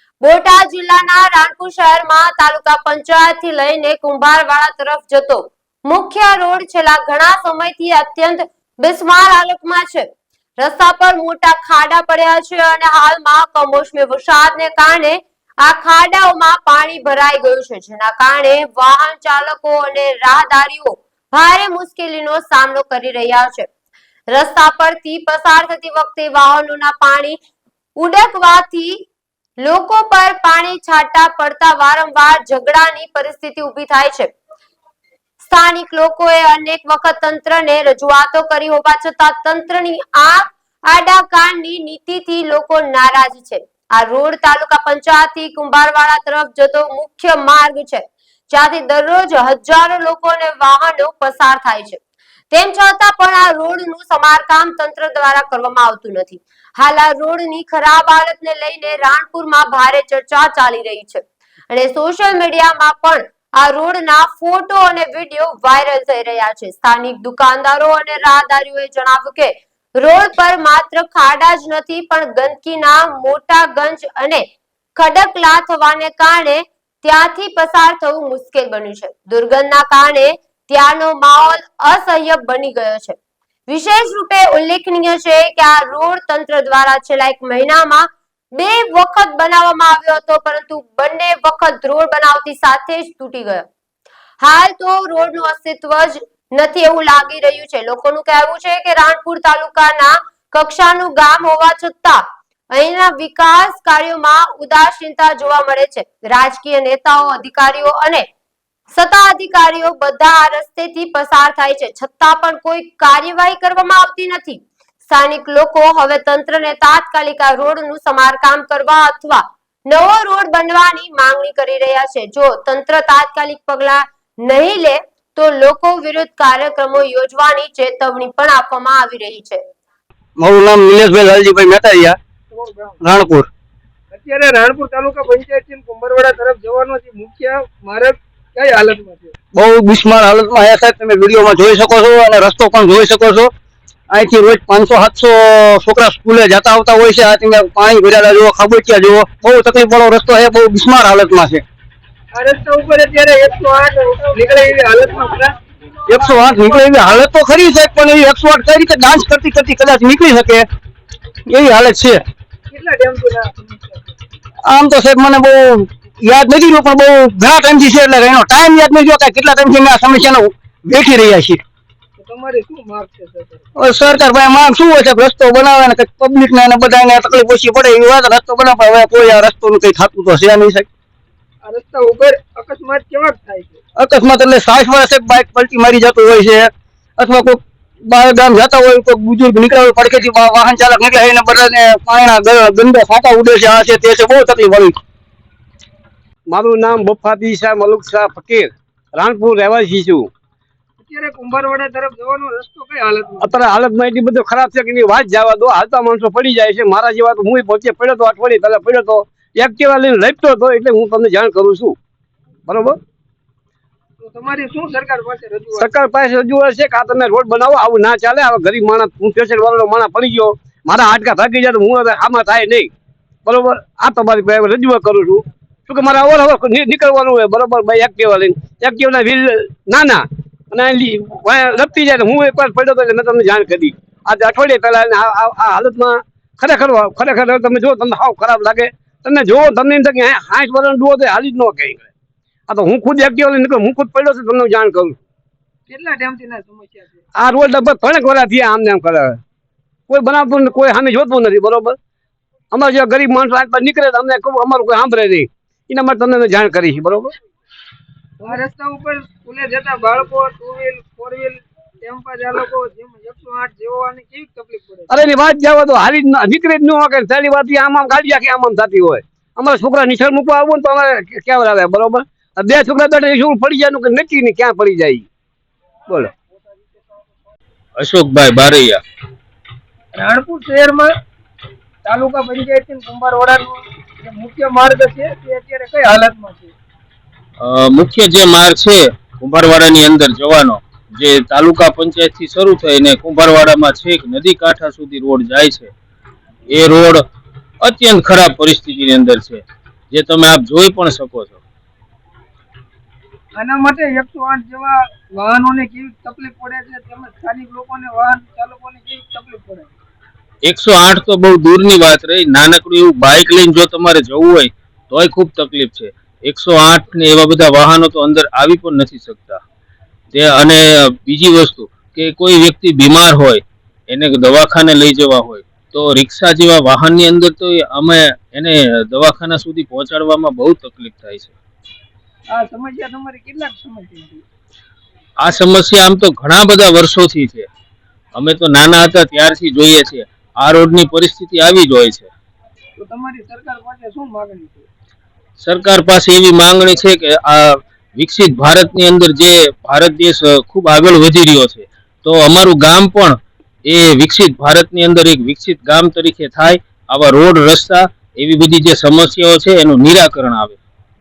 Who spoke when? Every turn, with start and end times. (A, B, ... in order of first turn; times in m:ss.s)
0:00.2-0:10.1 A
0:10.6-0:23.7 A
0:24.3-0:27.4 A
0:28.0-0:29.0 A
0:29.6-0:34.3 A
0:35.4-0:52.0 A
0:52.5-1:14.4 A
1:15.0-1:23.2 A
1:23.7-1:33.7 A
1:34.4-1:48.3 A
1:48.9-2:09.6 A
2:10.4-2:12.2 B
2:12.5-2:13.0 C
2:13.0-2:13.5 B
2:14.1-2:19.3 C
2:19.5-2:23.5 B
2:24.1-2:31.6 B
2:32.3-2:35.5 C
2:36.1-2:40.7 B
2:36.1-2:36.8 C
2:41.5-2:42.2 B
2:42.7-2:44.1 C
2:44.7-2:51.6 B
2:52.2-2:53.7 C
2:53.8-3:00.9 B
3:01.6-3:03.8 C
3:04.0-3:15.0 B
3:16.5-3:20.3 D
3:21.0-3:23.5 C
3:23.4-3:32.0 D
3:32.7-3:33.0 D
3:34.2-3:35.9 C
3:35.8-3:42.9 D
3:43.5-4:02.1 D
4:02.7-4:05.2 D
4:05.9-4:07.2 C
4:07.4-4:09.4 D
4:10.1-4:12.0 D
4:12.7-4:17.3 D
4:18.4-4:25.1 C
4:25.1-4:35.3 D
4:38.0-4:39.0 E
4:40.2-4:41.1 C
4:42.0-4:46.7 C
4:47.6-4:55.9 E
4:56.7-4:57.2 E
4:57.8-5:01.6 E
5:03.6-5:09.9 C
5:10.6-5:19.6 E
5:20.3-5:31.6 E
5:32.5-5:34.4 C
5:35.4-5:37.7 E
5:38.4-5:42.3 E
5:43.0-5:44.9 C
5:45.6-6:00.8 E